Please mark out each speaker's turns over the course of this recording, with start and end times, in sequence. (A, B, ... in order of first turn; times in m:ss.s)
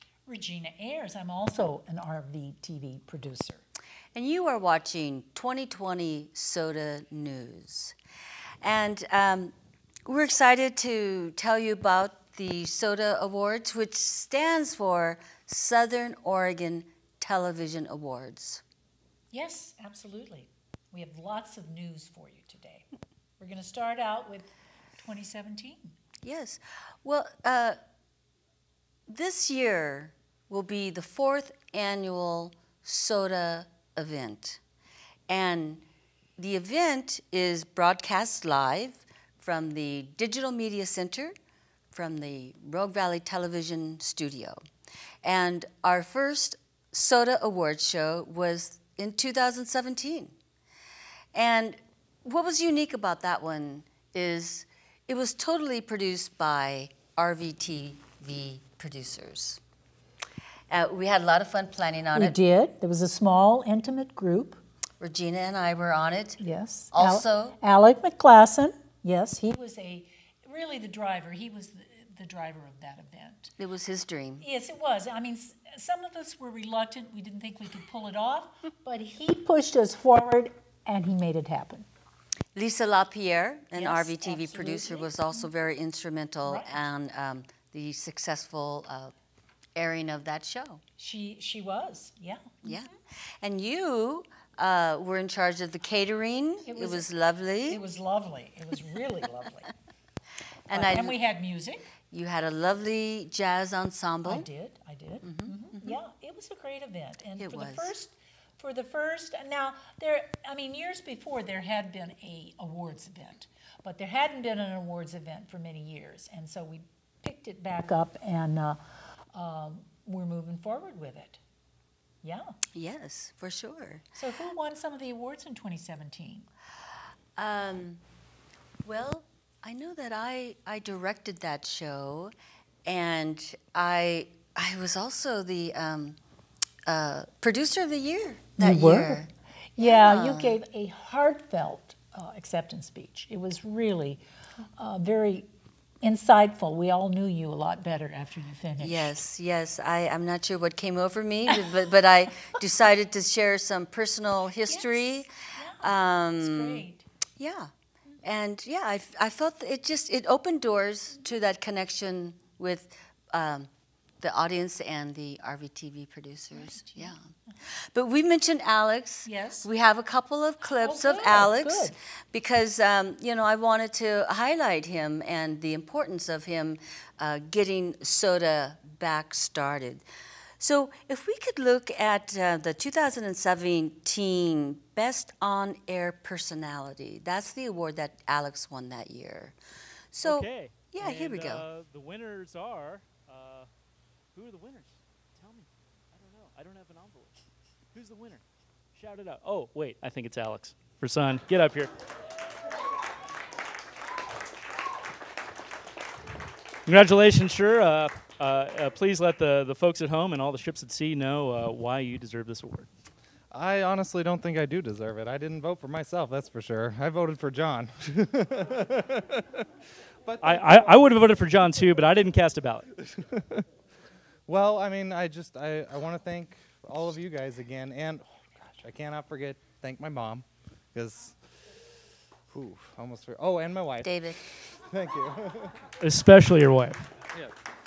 0:00.3-0:03.6 A
0:04.2-0:08.0 B
0:08.6-0:09.5 B
0:10.1-0:18.6 B
0:19.3-0:22.9 A
0:23.4-0:25.9 A
0:26.2-0:27.8 B
0:29.1-0:34.6 B
0:35.3-0:35.8 B
0:36.4-0:41.3 B
0:41.9-0:44.6 B
0:45.2-0:50.3 B
0:51.3-0:59.6 B
1:00.7-1:02.4 B
1:02.2-1:04.6 A
1:05.0-1:06.4 B
1:06.4-1:13.5 A
1:06.9-1:07.6 B
1:13.6-1:14.4 B
1:14.4-1:21.9 A
1:22.6-1:29.1 B
1:23.8-1:25.4 A
1:26.4-1:26.8 A
1:29.8-1:30.8 B
1:31.0-1:32.8 A
1:32.6-1:37.8 B
1:36.7-1:37.1 A
1:37.7-1:39.7 A
1:40.7-1:41.2 B
1:40.7-1:41.9 A
1:42.1-1:44.5 B
1:44.2-1:58.8 A
1:45.2-1:46.0 B
1:47.4-1:47.9 B
1:59.3-2:01.4 A
2:02.2-2:02.5 A
2:02.8-2:04.0 B
2:04.2-2:06.5 A
2:07.4-2:08.0 B
2:08.8-2:12.3 B
2:12.9-2:16.2 B
2:16.9-2:19.3 B
2:18.6-2:19.2 A
2:19.8-2:24.2 A
2:19.8-2:20.6 B
2:24.8-2:25.5 A
2:26.0-2:29.1 A
2:28.8-2:35.3 B
2:34.7-2:37.1 A
2:35.8-2:36.8 B
2:37.4-2:37.7 B
2:38.2-2:43.7 B
2:44.2-2:47.3 B
2:46.5-2:47.5 A
2:47.9-3:00.0 B
2:49.2-2:49.7 A
2:50.8-2:51.9 A
3:00.6-3:09.6 B
3:10.1-3:11.6 B
3:10.2-3:13.7 C
3:14.3-3:21.9 C
3:26.9-3:32.9 C
3:33.5-3:39.6 D
3:40.2-3:40.9 D
3:40.4-3:42.9 C
3:43.0-3:43.6 D
3:44.5-3:51.5 D
3:52.5-3:54.1 D
3:54.0-3:54.4 B
3:54.7-3:55.8 D
3:56.0-3:57.1 C